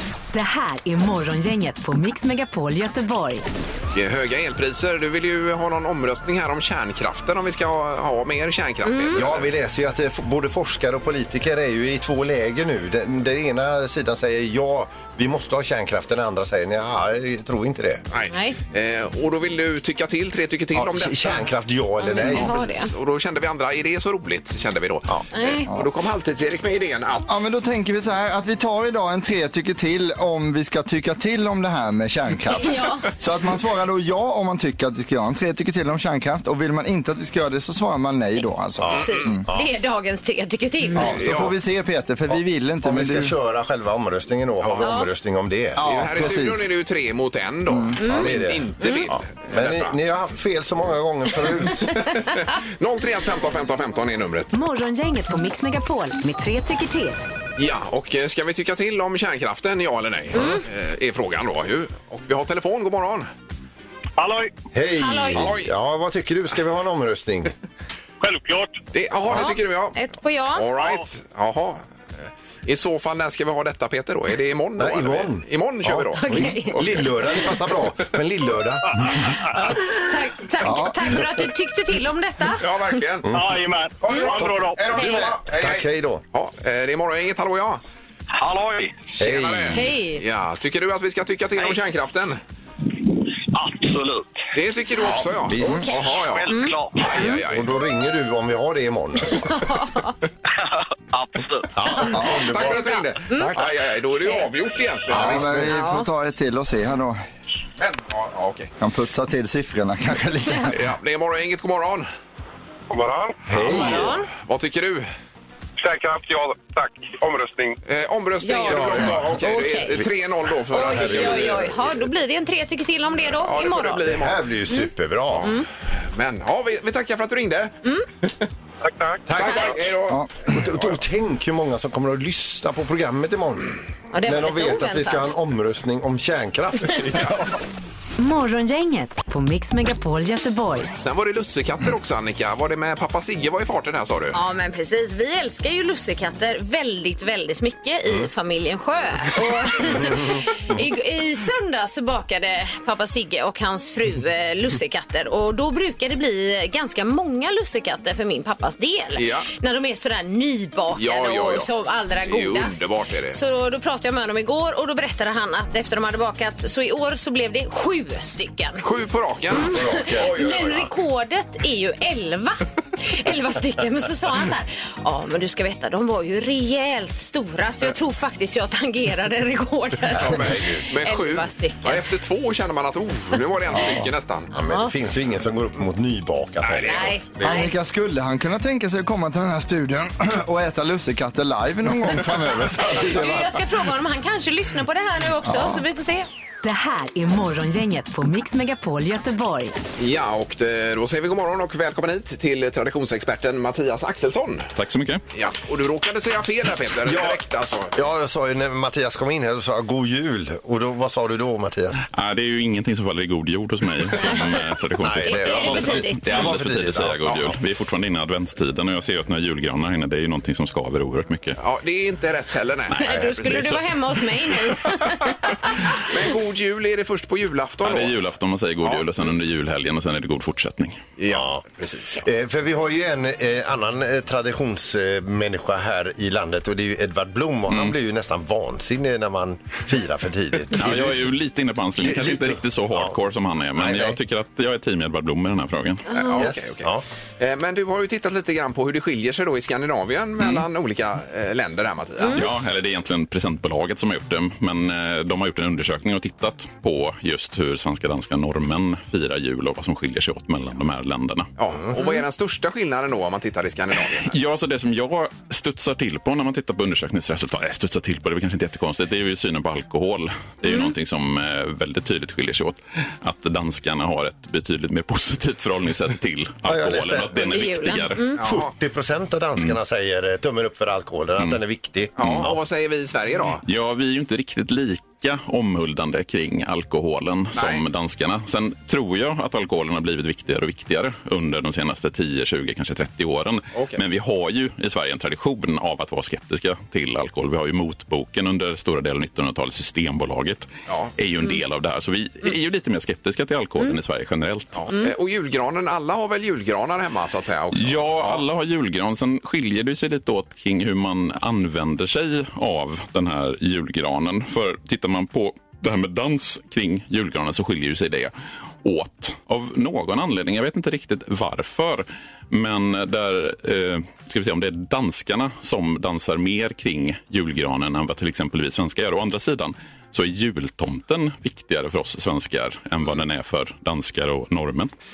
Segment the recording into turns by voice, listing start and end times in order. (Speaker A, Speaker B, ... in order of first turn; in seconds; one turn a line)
Speaker A: 0.3-3.5
Speaker B: 3.9-9.5
Speaker C: 8.8-9.3
Speaker D: 9.1-18.0
Speaker B: 18.1-21.5
Speaker C: 18.3-18.6
Speaker D: 20.7-22.7
Speaker C: 22.0-22.9
Speaker B: 22.2-27.3
Speaker C: 25.3-25.7
Speaker E: 27.3-39.5
Speaker C: 32.5-33.1
Speaker D: 38.8-39.7
Speaker C: 38.9-41.2
Speaker E: 41.0-43.4
Speaker B: 41.1-41.5
Speaker D: 42.3-46.1
Speaker B: 44.6-44.9
Speaker C: 44.8-45.1
Speaker E: 45.8-46.7
Speaker B: 45.9-50.0
Speaker E: 47.7-48.0
Speaker C: 48.0-49.1
Speaker D: 48.0-52.1
Speaker B: 52.0-54.5
Speaker A: 54.5-57.2
Speaker B: 57.6-63.3
Speaker C: 60.3-60.6
Speaker F: 64.2-64.5
Speaker D: 64.7-67.5
Speaker C: 65.0-65.5
Speaker B: 65.3-65.7
Speaker F: 68.2-68.8
Speaker B: 68.9-70.0
Speaker C: 69.3-70.7
Speaker B: 70.5-71.8
Speaker B: 72.7-77.7
Speaker D: 74.8-79.4
Speaker C: 76.2-77.0
Speaker C: 79.5-82.6
Speaker E: 80.6-81.1
Speaker B: 82.6-83.3
Speaker D: 83.2-83.5
Speaker F: 83.3-84.8
Speaker B: 84.0-87.8
Speaker D: 84.4-86.2
Speaker C: 85.0-85.2
Speaker F: 88.4-88.9
Speaker B: 89.2-92.4
Speaker D: 89.2-89.8
Speaker C: 89.7-90.2
Speaker F: 93.5-94.3
Speaker B: 94.5-97.7
Speaker D: 95.4-96.0
Speaker C: 95.6-97.4
Speaker F: 95.9-97.1
Speaker D: 97.4-99.7
Speaker C: 99.5-100.2
Speaker D: 101.7-103.0
Speaker C: 102.0-103.5
Speaker E: 102.0-102.5
Speaker B: 102.2-105.7
Speaker E: 105.1-107.2
Speaker D: 105.1-105.5
Speaker C: 105.6-106.1
Speaker B: 107.8-108.7
Speaker E: 108.8-110.8
Speaker B: 110.7-112.1
Speaker F: 112.9-113.4
Speaker D: 113.5-114.2
Speaker B: 113.6-115.1
Speaker C: 113.7-114.3
Speaker F: 115.8-117.8
Speaker B: 117.9-121.8
Speaker C: 118.4-120.0
Speaker D: 118.7-119.3
Speaker D: 120.7-121.8
Speaker C: 120.7-124.0
Speaker B: 123.3-124.4
Speaker D: 124.1-125.5
Speaker B: 125.3-128.5
Speaker C: 125.4-125.7
Speaker F: 128.8-129.2
Speaker D: 129.3-129.8
Speaker B: 129.3-131.0
Speaker D: 130.5-137.6
Speaker C: 134.1-135.3
Speaker A: 138.2-140.9
Speaker B: 141.0-144.4
Speaker C: 144.3-168.8
Speaker D: 149.8-150.2
Speaker B: 159.2-159.5
Speaker B: 160.9-161.7
Speaker B: 162.3-163.4
Speaker B: 168.8-170.9
Speaker D: 169.5-170.6
Speaker C: 169.5-182.1
Speaker B: 180.1-184.5
Speaker D: 180.1-180.8
Speaker E: 183.7-184.1
Speaker D: 184.5-187.2
Speaker C: 184.6-184.9
Speaker B: 186.6-187.6
Speaker C: 186.8-187.7
Speaker E: 187.4-193.8
Speaker C: 193.0-196.3
Speaker E: 195.4-195.8
Speaker A: 196.6-199.8
Speaker B: 200.0-204.7
Speaker G: 204.8-205.2
Speaker B: 205.3-207.9
Speaker D: 207.1-207.4
Speaker D: 207.9-212.0
Speaker G: 212.1-221.6
Speaker C: 214.2-214.7
Speaker D: 215.0-217.6
Speaker C: 215.2-216.5
Speaker B: 217.2-217.5
Speaker B: 221.6-223.6
Speaker G: 222.9-223.9
Speaker C: 222.9-225.9
Speaker B: 226.0-228.2
Speaker G: 227.8-231.1
Speaker B: 228.8-229.3
Speaker B: 231.2-232.2
Speaker D: 231.3-231.6
Speaker D: 232.2-241.3
Speaker G: 240.7-246.1
Speaker D: 242.0-243.2
Speaker D: 243.8-244.2
Speaker C: 246.1-246.5
Speaker B: 246.1-246.9
Speaker D: 246.3-247.0
Speaker B: 247.4-252.6
Speaker G: 250.4-250.7
Speaker C: 252.2-252.5
Speaker G: 252.3-261.5
Speaker B: 261.6-264.4
Speaker C: 261.9-262.2
Speaker G: 264.2-278.3
Speaker C: 270.6-270.9
Speaker D: 276.7-277.5
Speaker C: 277.3-278.4
Speaker B: 278.3-278.7
Speaker D: 278.4-282.6
Speaker B: 282.2-283.6
Speaker G: 282.2-282.5
Speaker G: 283.6-304.8
Speaker B: 287.5-287.9
Speaker B: 293.7-294.0
Speaker B: 300.9-301.1
Speaker B: 304.7-308.5
Speaker G: 307.7-334.9